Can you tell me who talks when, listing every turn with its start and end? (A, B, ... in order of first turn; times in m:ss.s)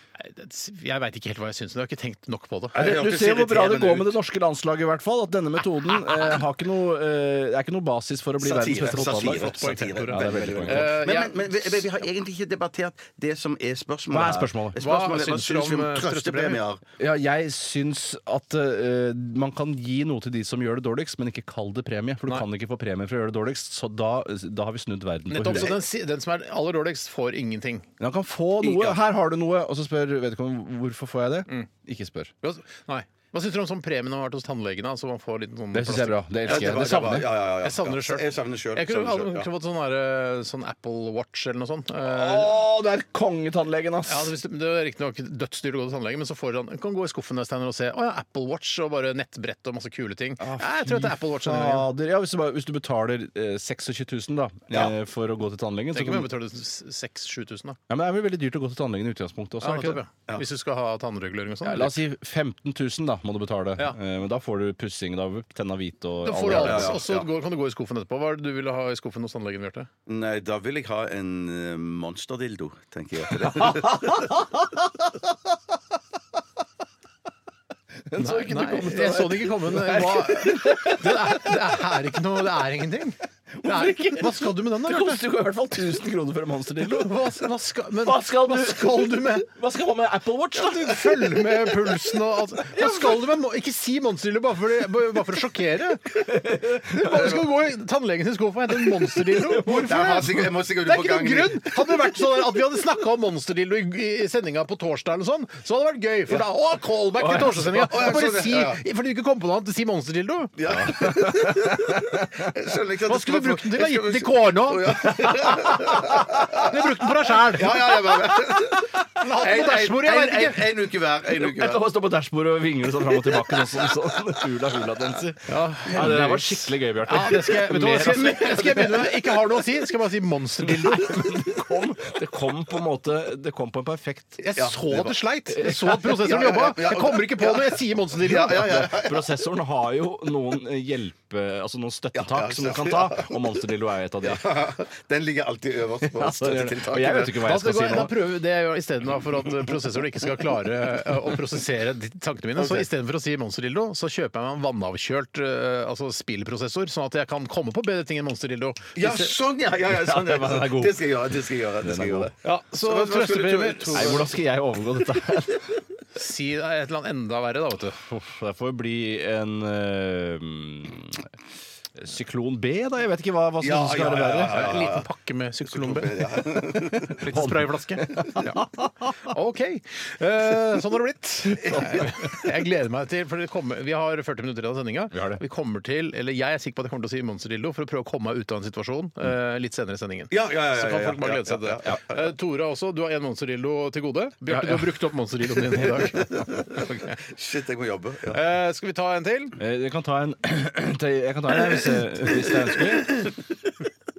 0:00.2-0:02.8 A
0:02.7-0:04.1 B
0:02.8-0:11.0 C
0:08.4-0:16.8 B
0:09.2-0:11.8 A
0:14.1-0:14.8 C
0:14.8-0:16.6 A
0:17.0-0:25.8 C
0:25.3-0:27.9 A
0:28.0-0:32.3 C
0:28.6-0:29.0 B
0:32.4-0:42.5 A
0:35.7-0:37.3 C
0:36.5-0:39.5 B
0:42.0-0:44.3 C
0:44.1-0:51.9 A
0:50.4-0:56.3 C
0:55.9-0:57.8 A
0:57.9-1:00.0 C
0:59.6-1:02.0 A
1:01.6-1:07.0 C
1:06.2-1:09.9 A
1:06.4-1:07.3 B
1:10.1-1:14.3 B
1:13.4-1:15.1 C
1:18.0-1:21.6 C
1:18.2-1:25.2 A
1:23.6-1:27.3 C
1:26.8-1:29.5 A
1:28.0-1:31.9 C
1:30.5-1:36.2 A
1:32.7-1:33.2 C
1:36.1-1:37.4 C
1:36.8-1:52.1 A
1:38.8-1:40.2 C
1:39.7-1:41.8 B
1:47.2-1:47.7 C
1:47.7-1:48.8 B
1:50.6-1:56.7 B
1:50.7-1:51.3 C
1:53.1-1:58.0 A
1:57.3-2:01.8 B
1:59.2-2:00.7 A
2:01.3-2:09.0 C
2:05.5-2:11.2 A
2:08.2-2:08.9 B
2:10.6-2:14.4 C
2:14.4-2:18.8 A
2:14.6-2:15.1 B
2:15.5-2:16.0 C
2:16.0-2:19.3 B
2:18.6-2:24.6 C
2:22.1-2:23.5 B
2:24.2-2:27.4 B
2:26.0-2:28.1 C
2:27.4-2:39.3 A
2:32.6-2:32.8 B
2:39.0-2:44.3 B
2:39.9-2:41.0 C
2:41.8-2:42.3 C
2:42.4-2:44.3 A
2:43.9-2:45.8 C
2:46.1-2:48.0 A
2:48.0-2:51.3 C
2:51.9-2:54.7 C
2:53.6-2:55.1 B
2:54.5-3:17.2 A
2:55.7-2:57.2 B
2:57.3-2:59.1 C
3:05.1-3:05.4 C
3:10.3-3:12.1 B
3:14.5-3:14.8 C
3:17.2-3:18.4 B
3:18.3-3:19.6 A
3:19.6-3:23.3 C